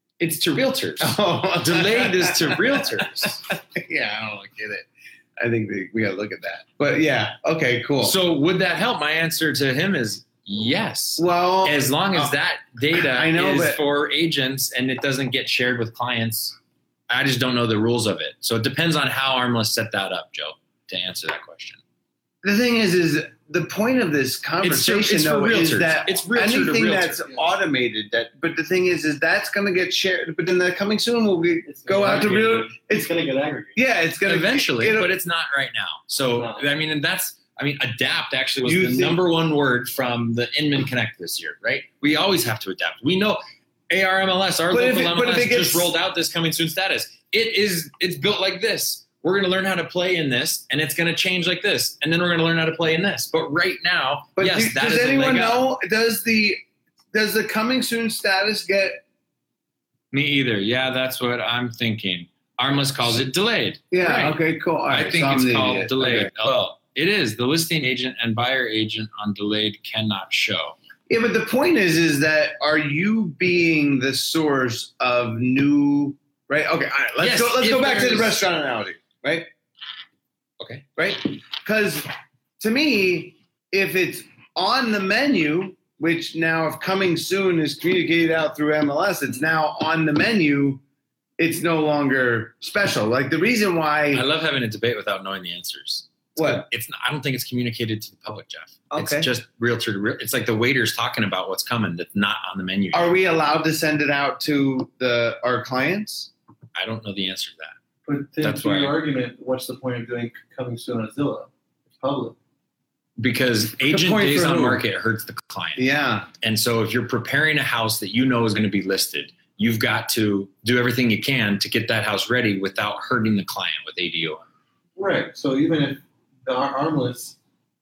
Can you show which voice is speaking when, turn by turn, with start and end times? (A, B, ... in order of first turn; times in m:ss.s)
0:00.2-0:03.4 A
0:01.0-0:04.8 B
0:05.4-0:08.2 B
0:08.0-0:16.6 A
0:11.2-0:12.3 B
0:12.9-0:13.8 B
0:17.1-0:21.8 A
0:22.4-0:33.1 B
0:24.6-0:27.2 A
0:31.6-0:33.8 C
0:33.7-0:35.1 B
0:34.2-0:55.6 A
0:36.3-0:36.6 C
0:38.6-0:39.2 B
0:44.7-0:45.9 B
0:54.4-0:56.6 B
0:57.1-0:59.0 B
1:00.1-1:10.8 A
1:03.9-1:06.3 B
1:11.1-1:19.5 B
1:17.2-1:18.4 A
1:20.6-1:20.8 A
1:21.0-1:30.8 B
1:31.4-1:34.2 B
1:34.1-1:43.1 A
1:36.4-1:36.6 B
1:38.9-1:39.3 B
1:42.9-1:46.3 B
1:46.7-1:47.7 A
1:48.0-1:52.4 C
1:48.4-1:49.0 A
1:53.2-1:55.8 A
1:53.8-1:54.8 B
1:55.8-1:56.3 B
1:56.4-2:04.4 A
2:05.0-2:07.4 C